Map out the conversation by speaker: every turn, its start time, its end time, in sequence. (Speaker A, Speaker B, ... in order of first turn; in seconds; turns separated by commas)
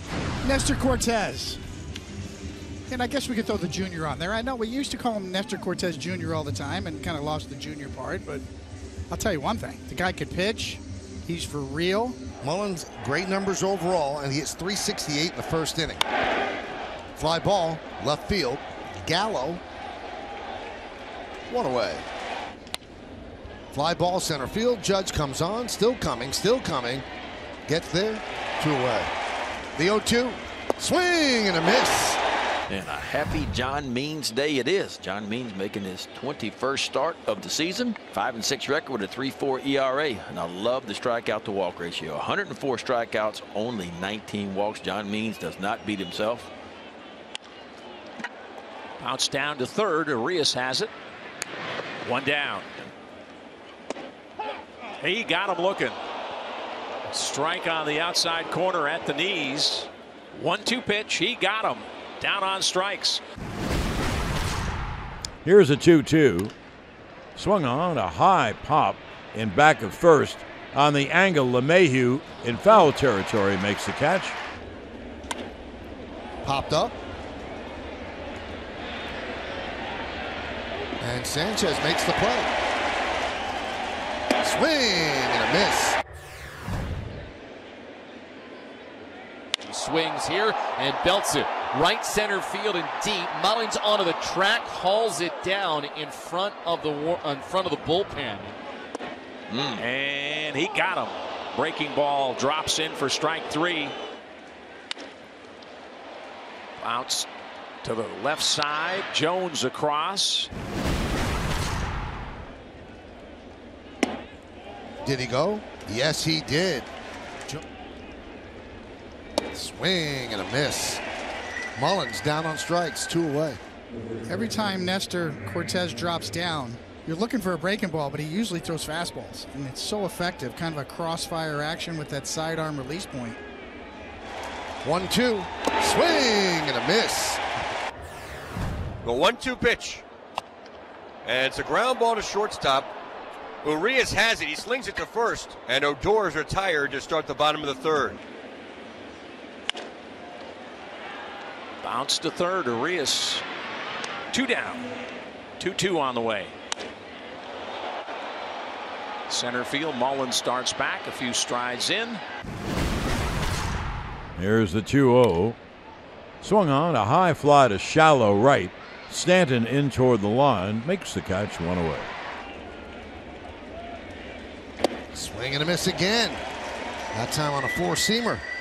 Speaker A: 0.4-1.6, Speaker A: 2.9-8.4, Speaker A: 9.1-12.2, Speaker B: 12.4-16.0, Speaker B: 17.2-19.6, Speaker B: 21.5-22.0, Speaker B: 23.7-27.0, Speaker B: 27.7-29.1, Speaker B: 29.8-32.2, Speaker C: 32.7-46.5, Speaker D: 49.0-50.9, Speaker D: 52.0-52.9, Speaker D: 55.0-56.0, Speaker D: 57.1-63.2, Speaker E: 65.4-66.5, Speaker E: 67.3-74.4, Speaker B: 76.4-76.9, Speaker B: 81.0-82.5, Speaker B: 84.4-86.0, Speaker F: 89.6-98.5, Speaker C: 99.5-99.8, Speaker D: 99.8-103.9, Speaker D: 106.8-107.3, Speaker D: 107.8-110.5, Speaker B: 115.0-116.9, Speaker B: 119.5-121.0, Speaker B: 121.8-123.6, Speaker A: 124.3-133.4, Speaker B: 134.8-137.4, Speaker G: 139.0-140.0, Speaker G: 141.2-142.9, Speaker G: 143.6-148.2, Speaker D: 151.8-153.4, Speaker D: 154.3-154.8, Speaker D: 155.6-156.5, Speaker D: 159.3-162.2, Speaker E: 164.4-165.6, Speaker E: 166.4-172.1, Speaker B: 175.1-176.4, Speaker B: 177.1-178.4